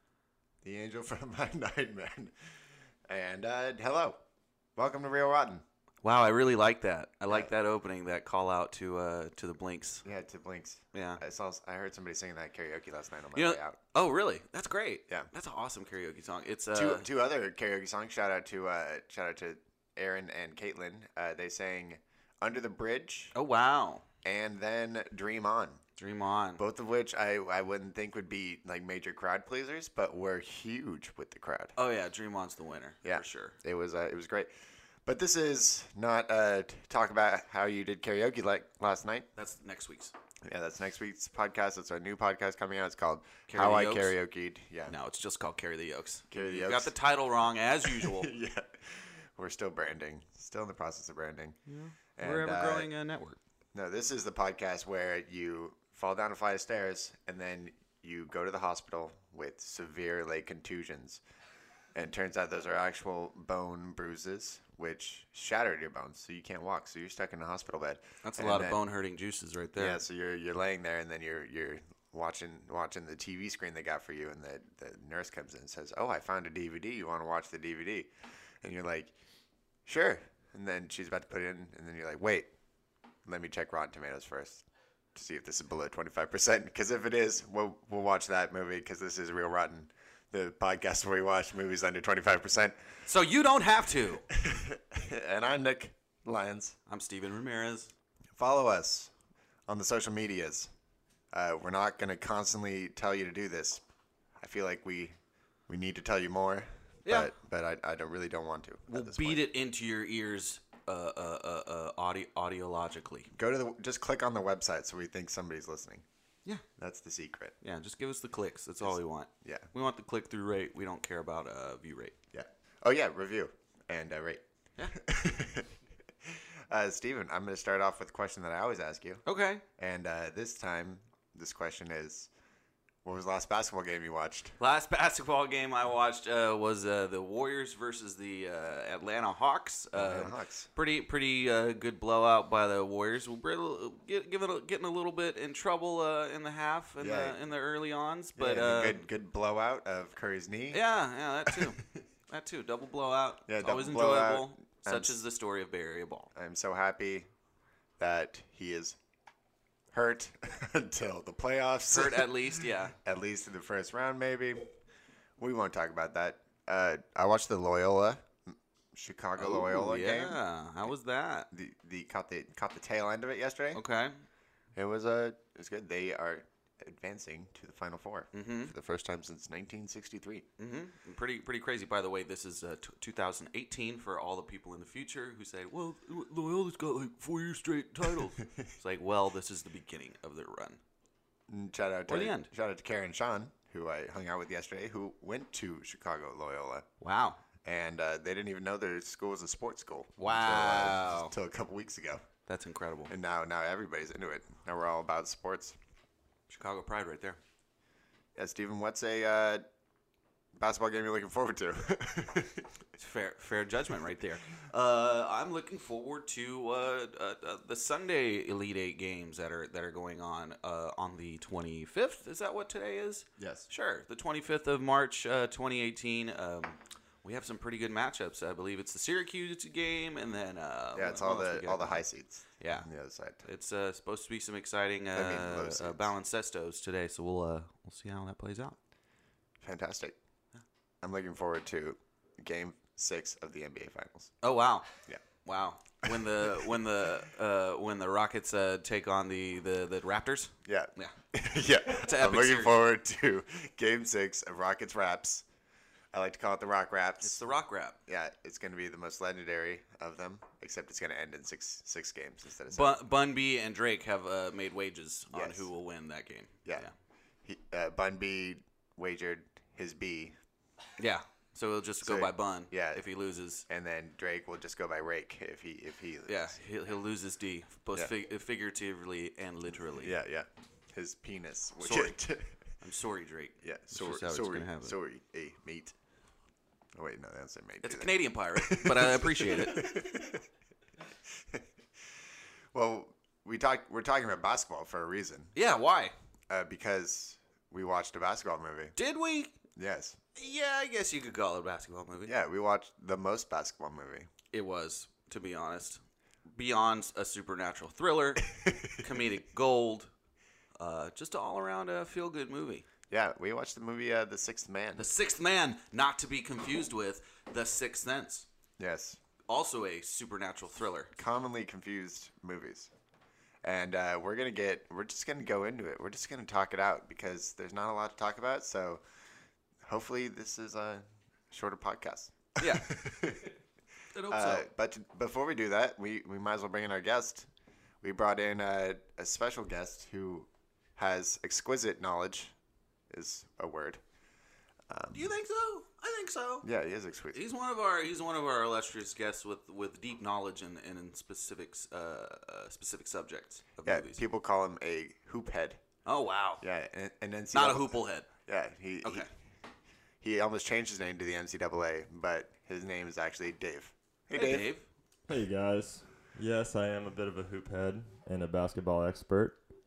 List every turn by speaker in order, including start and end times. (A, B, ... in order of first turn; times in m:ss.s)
0:00.6-0:02.3 A
0:03.1-0:04.2 A
0:04.8-0:05.6 A
0:06.0-0:10.0 B
0:10.0-0:13.8 A
0:10.9-0:11.2 B
0:13.4-0:17.1 B
0:16.7-0:23.4 A
0:23.4-0:24.0 B
0:24.2-0:25.8 A
0:26.0-0:26.6 B
0:26.6-0:31.8 A
0:31.8-0:33.6 B
0:33.0-0:34.5 A
0:35.0-0:39.3 A
0:39.4-0:40.1 B
0:40.4-0:45.0 A
0:43.5-0:44.2 B
0:44.9-0:48.3 B
0:46.3-0:46.9 A
0:47.8-0:51.6 A
0:51.7-0:53.4 B
0:52.2-0:52.9 A
0:53.8-1:01.2 A
1:02.0-1:08.8 A
1:08.2-1:10.0 B
1:09.8-1:18.1 A
1:18.6-1:19.1 A
1:19.9-1:22.5 A
1:23.2-1:32.8 A
1:33.1-1:34.2 B
1:34.3-1:36.8 A
1:36.9-1:37.9 B
1:38.4-1:39.1 A
1:39.7-1:40.7 A
1:41.3-1:43.8 A
1:44.4-1:45.2 A
1:45.7-1:49.4 A
1:47.1-1:47.3 B
1:48.9-1:53.3 B
1:53.3-1:56.0 A
1:56.8-1:57.6 A
1:57.6-2:02.2 B
1:58.8-1:59.7 A
2:02.3-2:05.7 A
2:06.2-2:09.2 A
2:09.3-2:09.6 B
2:09.8-2:12.3 A
2:13.0-2:14.6 A
2:14.6-2:29.0 B
2:19.9-2:20.7 A
2:27.0-2:27.4 A
2:28.4-2:30.8 A
2:30.7-2:36.3 B
2:31.4-2:31.8 A
2:33.5-2:35.2 A
2:36.4-2:37.3 A
2:38.0-2:39.0 A
2:39.9-2:44.7 A
2:41.9-2:43.0 B
2:45.4-2:50.4 A
2:49.4-2:51.5 B
2:51.5-2:53.8 A
2:53.7-2:54.2 B
2:54.8-3:00.5 A
2:58.3-2:58.7 B
3:00.6-3:10.8 B
3:11.5-3:16.9 A
3:12.1-3:12.5 B
3:17.0-3:17.4 B
3:17.6-3:22.3 A
3:20.2-3:21.3 B
3:22.5-3:23.1 B
3:23.1-3:25.8 A
3:26.5-3:27.4 B
3:28.4-3:29.7 A
3:30.6-3:32.7 A
3:33.0-3:52.0 B
3:43.4-3:43.7 A
3:51.0-3:53.4 A
3:52.6-3:52.9 B
3:53.4-3:58.8 B
3:55.1-3:56.1 A
3:59.6-4:00.2 A
4:01.0-4:04.3 A
4:04.4-4:04.9 B
4:05.4-4:11.1 B
4:06.1-4:06.7 A
4:10.7-4:15.4 A
4:11.8-4:12.8 B
4:16.1-4:17.4 A
4:17.2-4:18.0 B
4:18.1-4:23.0 A
4:22.7-4:26.9 B
4:25.3-4:25.7 A
4:27.4-4:30.4 A
4:31.0-4:33.6 B
4:32.0-4:33.0 A
4:33.7-4:36.6 A
4:36.3-4:40.2 B
4:40.0-4:42.5 A
4:41.8-4:42.2 B
4:42.8-4:45.0 B
4:43.6-4:46.0 A
4:46.9-4:50.4 A
4:47.8-4:50.0 B
4:52.7-4:55.5 A
4:55.6-4:56.1 B
4:56.5-4:59.0 A
4:59.0-4:59.6 B
4:59.8-5:00.2 A
5:00.4-5:02.3 B
5:02.2-5:04.3 A
5:04.5-5:06.0 B
5:06.5-5:10.1 B
5:08.6-5:08.9 A
5:10.8-5:12.9 B
5:13.1-5:15.1 A
5:15.0-5:18.5 B
5:18.8-5:19.2 A
5:19.5-5:21.1 B
5:21.2-5:22.9 A
5:23.6-5:29.0 A
5:29.8-5:33.5 A
5:32.6-5:33.4 B
5:34.1-5:34.7 B
5:34.3-5:37.5 A
5:38.0-5:42.5 A
5:43.1-5:44.0 A
5:44.9-5:45.3 A
5:45.1-5:46.7 B
5:46.6-5:47.4 A
5:47.3-5:54.2 B
5:53.8-5:55.8 A
5:56.1-5:56.6 B
5:56.6-5:59.3 A
5:57.5-5:58.3 B
5:59.0-5:59.3 B
6:00.2-6:04.7 A
6:04.3-6:04.8 B
6:05.3-6:09.6 C